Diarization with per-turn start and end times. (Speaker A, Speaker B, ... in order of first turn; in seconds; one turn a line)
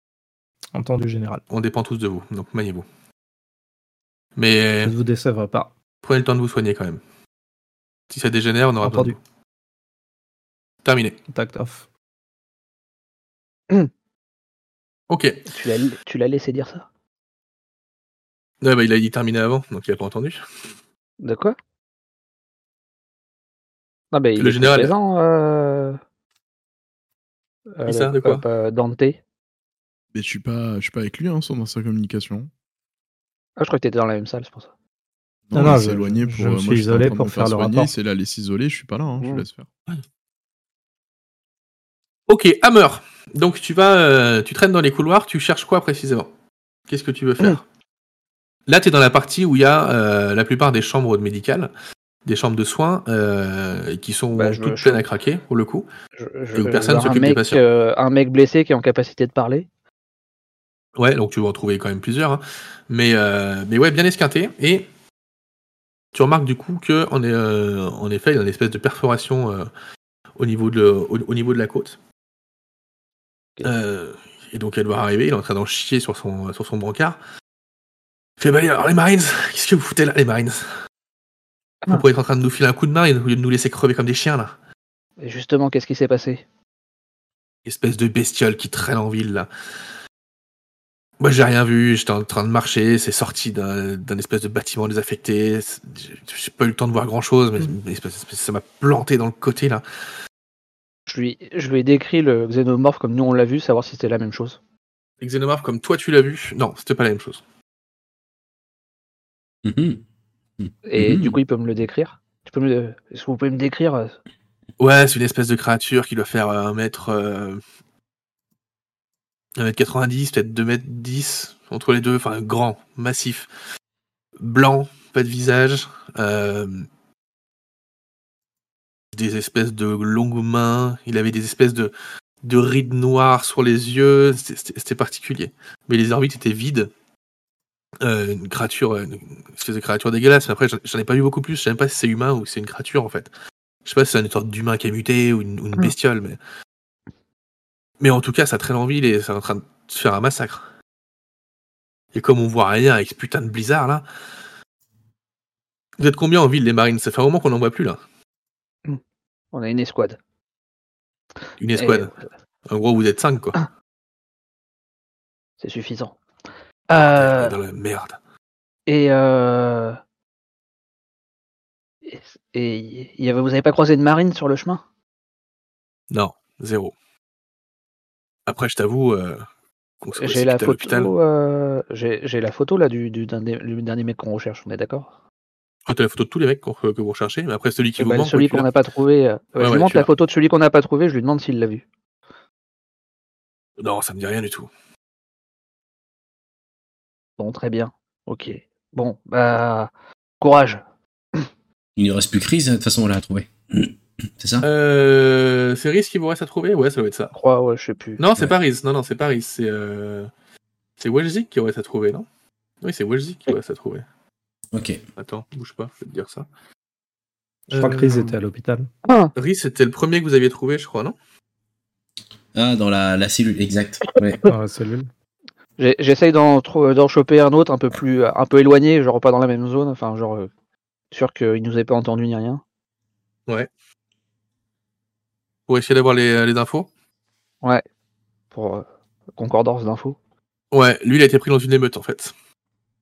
Speaker A: 0.7-1.4
Speaker B: 1.5-2.9
Speaker B: 4.4-5.0
Speaker A: 4.9-5.7
Speaker B: 6.0-7.0
Speaker B: 8.1-9.2
Speaker A: 8.8-9.2
Speaker B: 10.8-11.2
Speaker A: 11.3-11.8
Speaker B: 15.1-15.5
Speaker C: 15.5-16.9
Speaker B: 18.6-20.4
Speaker C: 21.2-21.6
Speaker C: 24.1-26.0
Speaker B: 24.4-24.9
Speaker C: 27.7-29.2
Speaker B: 27.9-28.4
Speaker D: 30.1-32.5
Speaker C: 33.6-34.7
Speaker D: 35.5-39.7
Speaker A: 35.5-37.9
Speaker B: 42.3-46.3
Speaker B: 46.9-47.6
Speaker B: 48.7-51.7
Speaker B: 52.3-55.9
Speaker C: 54.3-55.1
Speaker C: 56.2-59.7
Speaker B: 56.5-57.6
Speaker B: 61.0-64.9
Speaker B: 66.1-69.7
Speaker B: 70.4-72.0
Speaker B: 73.6-77.2
Speaker B: 78.4-80.8
Speaker B: 81.9-84.5
Speaker C: 85.2-86.4
Speaker B: 87.7-89.5
Speaker B: 91.2-99.8
Speaker C: 101.1-104.6
Speaker B: 105.2-107.4
Speaker E: 109.6-110.0
Speaker E: 110.6-111.4
Speaker C: 110.9-114.2
Speaker B: 114.8-117.6
Speaker B: 119.6-123.5
Speaker B: 124.4-126.9
Speaker B: 129.1-136.9
Speaker B: 138.0-143.3
Speaker B: 143.8-146.4
Speaker B: 148.0-150.7
Speaker B: 152.1-154.1
Speaker B: 156.0-158.0
Speaker C: 159.5-160.2
Speaker B: 161.6-162.1
Speaker C: 161.8-162.2
Speaker B: 162.7-163.6
Speaker C: 165.6-166.2
Speaker C: 166.9-167.6
Speaker B: 167.0-168.2
Speaker C: 168.9-170.0
Speaker C: 172.1-174.8
Speaker B: 176.1-176.9
Speaker B: 178.5-179.4
Speaker B: 180.0-181.1
Speaker C: 180.2-185.1
Speaker B: 185.9-188.7
Speaker C: 188.0-191.8
Speaker B: 189.6-190.1
Speaker B: 193.8-194.7
Speaker C: 197.4-200.8
Speaker E: 202.0-204.7
Speaker B: 204.6-207.3
Speaker C: 207.3-208.2
Speaker B: 208.2-210.3
Speaker B: 211.0-212.3
Speaker B: 212.8-214.1
Speaker E: 214.7-215.0
Speaker B: 215.2-216.5
Speaker A: 217.7-218.9
Speaker B: 217.7-218.4
Speaker C: 219.1-219.3
Speaker B: 219.4-221.2
Speaker E: 222.6-224.4
Speaker A: 224.5-225.1
Speaker C: 225.8-230.5
Speaker C: 231.1-232.6
Speaker B: 235.7-236.9
Speaker C: 238.5-240.2
Speaker B: 240.7-242.3